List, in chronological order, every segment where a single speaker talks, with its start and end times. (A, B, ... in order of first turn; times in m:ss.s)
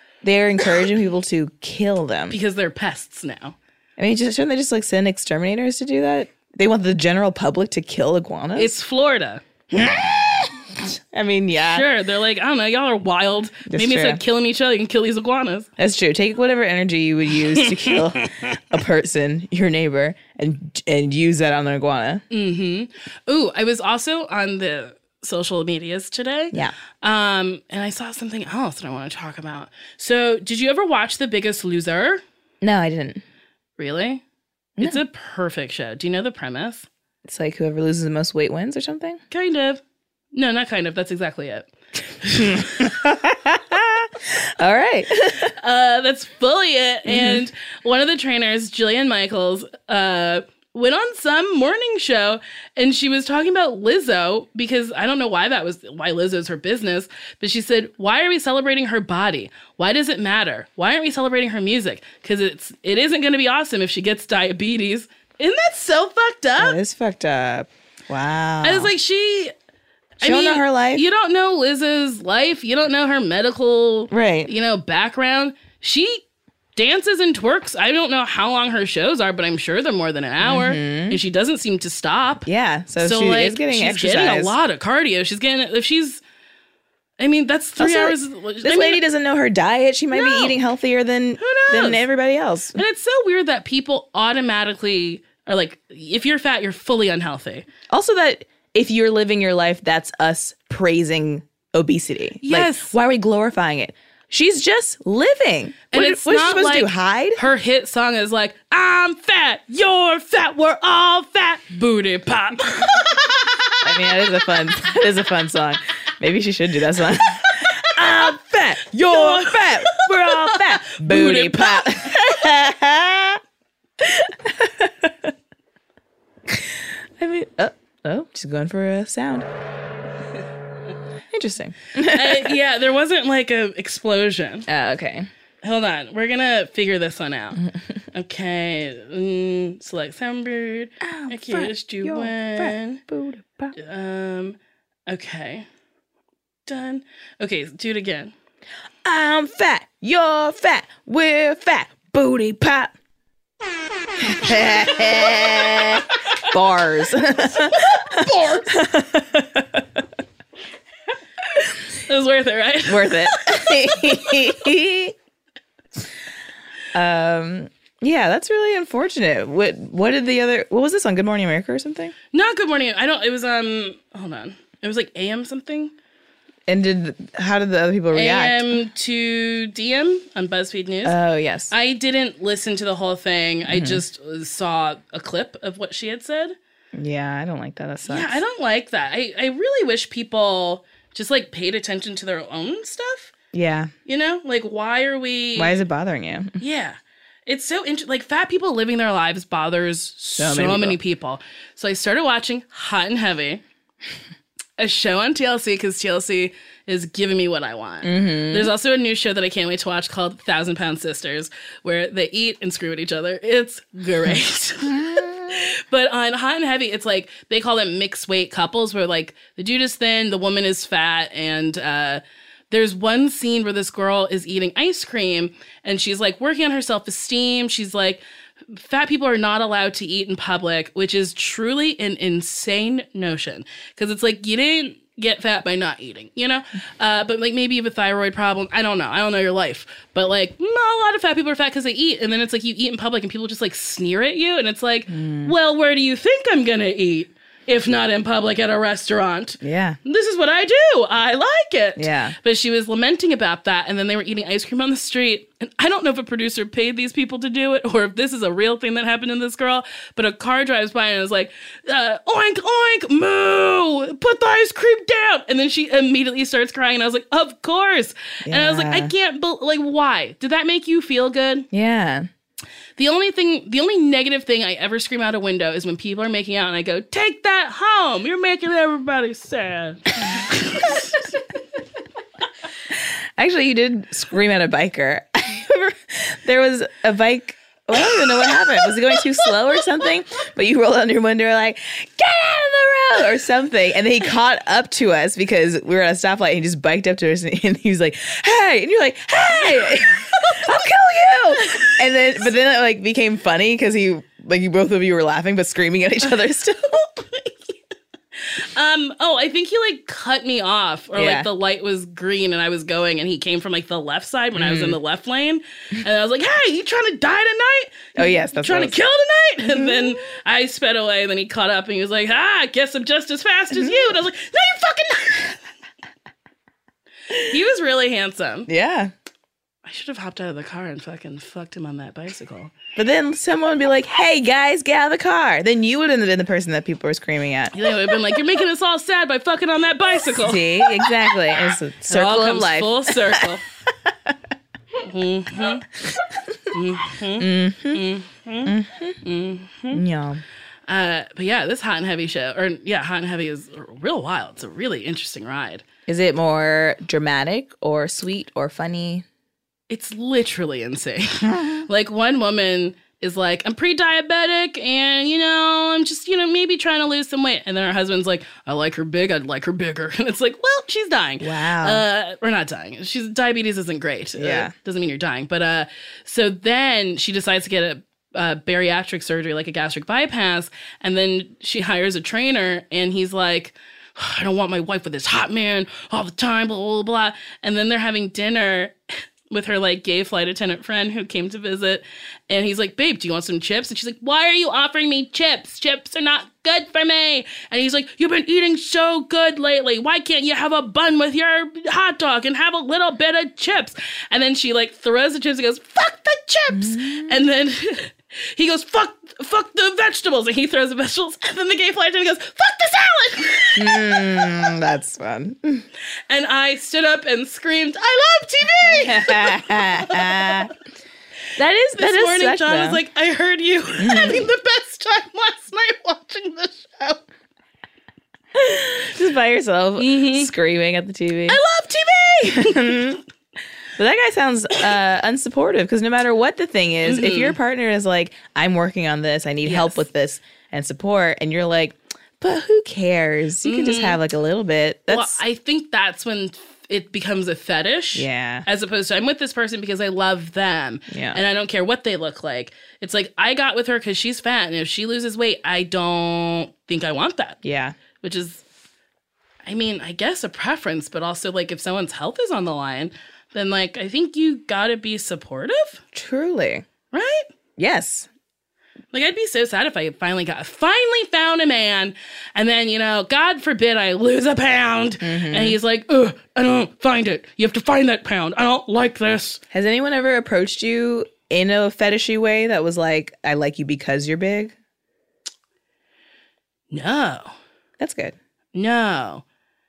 0:00.2-0:02.4 A
0:02.3-0:03.6 B
0:04.0-0:08.7 A
0:08.5-0:09.4 B
0:09.7-0:11.9 A
0:11.6-0:15.7 B
0:13.7-0:14.2 A
0:15.8-0:22.2 A
0:17.5-0:18.5 B
0:22.3-0:32.2 B
0:32.6-0:33.2 A
0:33.8-0:34.2 B
0:34.8-0:36.9 B
0:37.2-0:39.2 A
0:39.3-0:39.8 B
0:40.3-0:42.7 B
0:42.4-0:45.5 A
0:45.6-1:06.8 B
0:47.0-0:47.4 A
1:06.6-1:08.9 A
1:08.6-1:09.5 B
1:10.2-1:16.2 B
1:10.2-1:11.0 A
1:14.1-1:14.5 A
1:16.8-1:22.5 B
1:20.4-1:21.2 A
1:22.4-1:24.5 A
1:23.0-1:26.2 B
1:27.2-1:29.0 B
1:27.8-1:32.8 A
1:30.1-1:30.6 B
1:31.4-1:32.0 B
1:32.7-1:37.6 B
1:37.9-1:47.4 A
1:42.4-1:43.0 B
1:45.9-1:53.5 B
1:53.8-2:03.4 A
1:57.8-1:58.4 B
1:58.9-2:02.3 B
2:04.0-2:05.3 A
2:06.5-2:09.5 A
2:11.3-2:12.6 A
2:12.0-2:14.7 B
2:14.7-2:15.3 A
2:15.6-2:17.6 B
2:18.1-2:23.0 B
2:21.0-2:23.7 A
2:23.7-2:24.6 B
2:25.1-2:25.6 B
2:26.6-2:28.3 B
2:29.0-2:32.9 A
2:34.2-2:40.0 A
2:37.9-2:38.7 B
2:42.0-2:44.4 B
2:42.9-2:45.1 A
2:46.9-2:52.1 A
2:52.3-2:55.9 B
2:56.7-2:58.7 A
2:58.1-3:01.2 B
3:01.0-3:01.7 A
3:01.7-3:06.6 B
3:03.7-3:04.0 A
3:06.9-3:08.4 A
3:08.0-3:13.3 B
3:13.5-3:13.9 A
3:14.0-3:15.8 B
3:15.5-3:16.6 A
3:16.6-3:23.6 B
3:20.4-3:21.0 A
3:24.8-4:31.7 B
3:28.0-3:28.7 A
3:34.2-3:35.7 A
4:05.1-4:05.5 A
4:09.6-4:10.0 A
4:12.0-4:12.4 A
4:28.4-4:29.1 A
4:31.7-4:32.3 A
4:33.0-4:41.2 B
4:42.9-5:07.5 A
5:08.6-5:25.6 B
5:11.1-5:11.5 A
5:14.5-5:15.0 A
5:18.2-5:19.0 A
5:19.7-5:20.1 A
5:23.7-5:24.1 A
5:27.5-5:28.7 B
5:28.7-5:29.1 A
5:29.8-5:32.7 B
5:33.0-5:37.7 A
5:37.7-5:41.1 B
5:40.3-5:43.4 A
5:42.1-5:43.6 B
5:45.0-5:45.9 B
5:46.7-5:50.0 B
5:47.4-5:48.0 A
5:48.6-5:49.2 A
5:49.9-5:50.4 A
5:50.9-5:55.8 B
5:56.1-5:59.2 A
5:59.9-6:29.0 B
6:01.5-6:01.8 A
6:11.4-6:12.0 A
6:14.4-6:14.7 A
6:29.5-6:54.6 B
6:46.7-6:47.4 A
6:53.8-6:55.8 A
6:56.3-7:00.6 B
6:59.0-7:00.7 A
7:01.6-7:03.0 A
7:02.0-7:07.2 B
7:04.0-7:04.4 A
7:08.5-7:11.6 A
7:10.0-7:10.5 B
7:11.5-7:13.1 B
7:12.5-7:13.2 A
7:14.0-7:25.4 A
7:17.0-7:17.6 B
7:19.6-7:20.0 B
7:23.6-7:24.2 B
7:25.1-7:37.6 B
7:28.1-7:28.6 A
7:31.1-7:31.4 A
7:37.6-7:38.0 A
7:38.2-7:38.6 B
7:39.6-7:46.0 B
7:46.1-7:46.8 A
7:47.1-7:47.5 B
7:47.8-7:48.3 A
7:49.1-7:59.6 B
7:55.2-7:55.8 A
7:59.7-8:04.7 A
8:06.9-8:07.5 B
8:08.0-8:08.3 A
8:08.7-8:09.4 B